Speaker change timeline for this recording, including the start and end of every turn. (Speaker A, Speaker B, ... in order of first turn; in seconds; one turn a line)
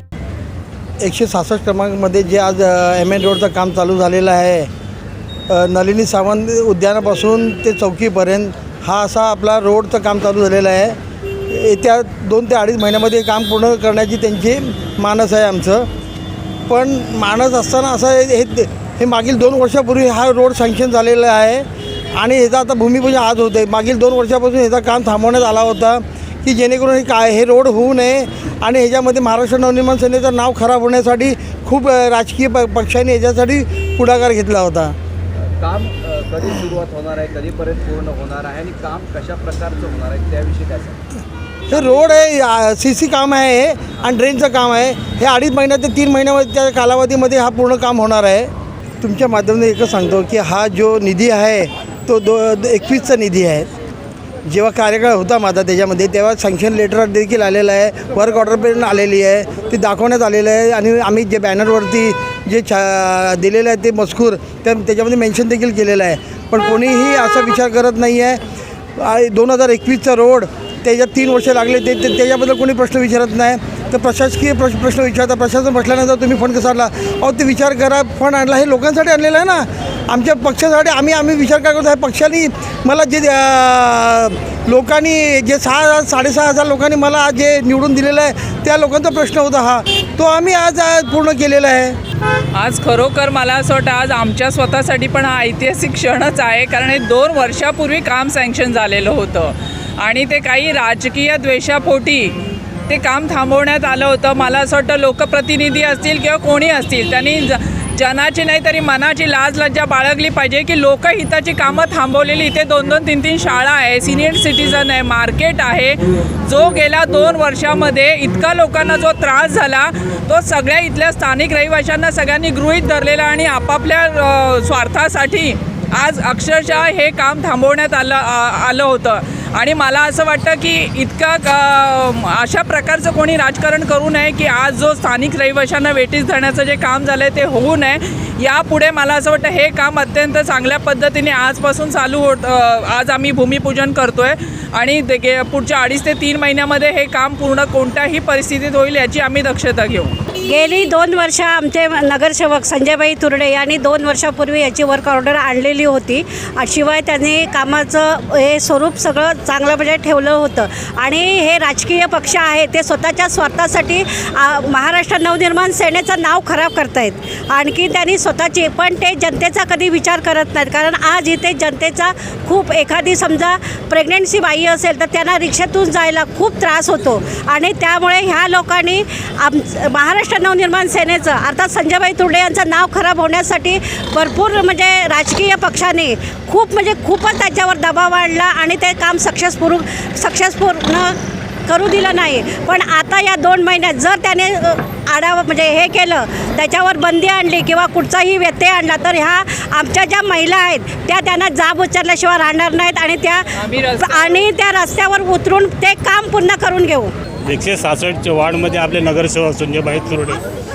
Speaker A: 1.0-4.7
Speaker A: 5.5-11.0
Speaker A: 11.5-15.9
Speaker A: 16.7-35.0
Speaker B: 35.6-41.0
Speaker A: 41.7-48.5
Speaker B: 41.8-42.2
Speaker A: 49.0-53.7
Speaker A: 54.5-68.4
Speaker A: 69.0-92.0
Speaker C: 92.5-150.1
Speaker D: 150.5-207.1
Speaker C: 203.6-204.5
Speaker E: 207.5-210.4